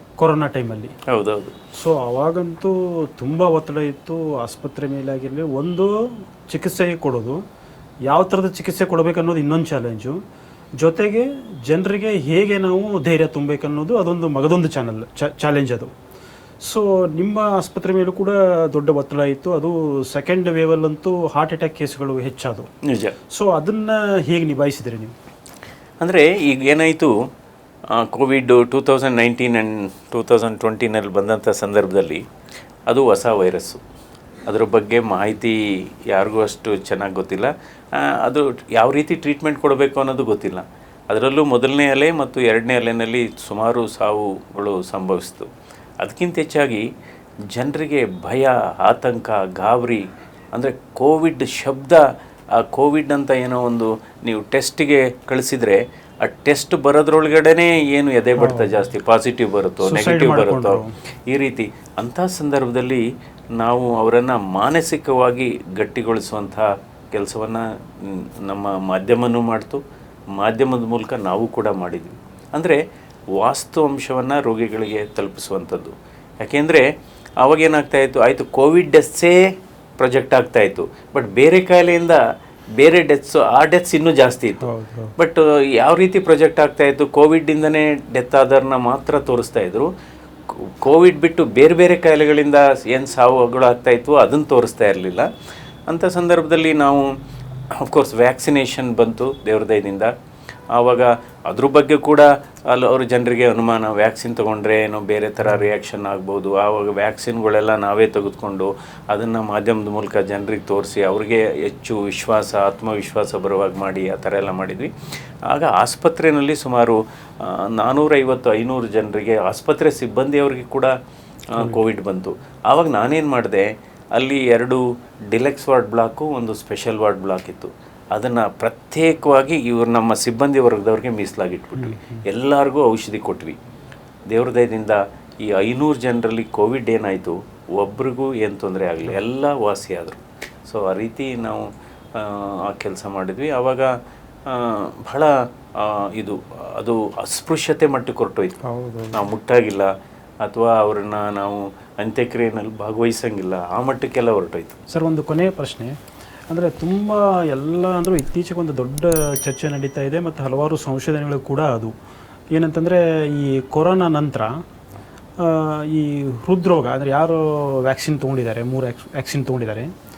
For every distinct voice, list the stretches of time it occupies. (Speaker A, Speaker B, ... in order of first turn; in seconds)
Speaker A: 0.2-0.9, 1.8-5.9, 6.5-7.4, 8.1-10.2, 10.8-15.9, 16.6-22.7, 23.3-25.1, 58.4-58.8, 59.8-60.9, 84.6-85.1, 131.8-132.2, 148.7-149.2, 154.9-155.9, 156.5-161.9, 162.5-164.5, 165.4-169.9
Speaker B: 1.1-1.5, 22.9-23.1, 26.0-27.1, 27.9-32.2, 32.9-33.8, 34.5-45.5, 46.0-46.9, 47.5-50.0, 50.5-52.0, 52.6-63.0, 63.6-69.8, 70.4-72.8, 73.4-76.9, 77.4-79.5, 80.0-82.2, 82.8-89.9, 90.5-95.3, 95.9-97.1, 97.8-100.1, 100.7-114.9, 115.5-120.9, 121.5-133.6, 134.3-143.9, 144.5-148.6, 149.1-149.9, 150.4-154.8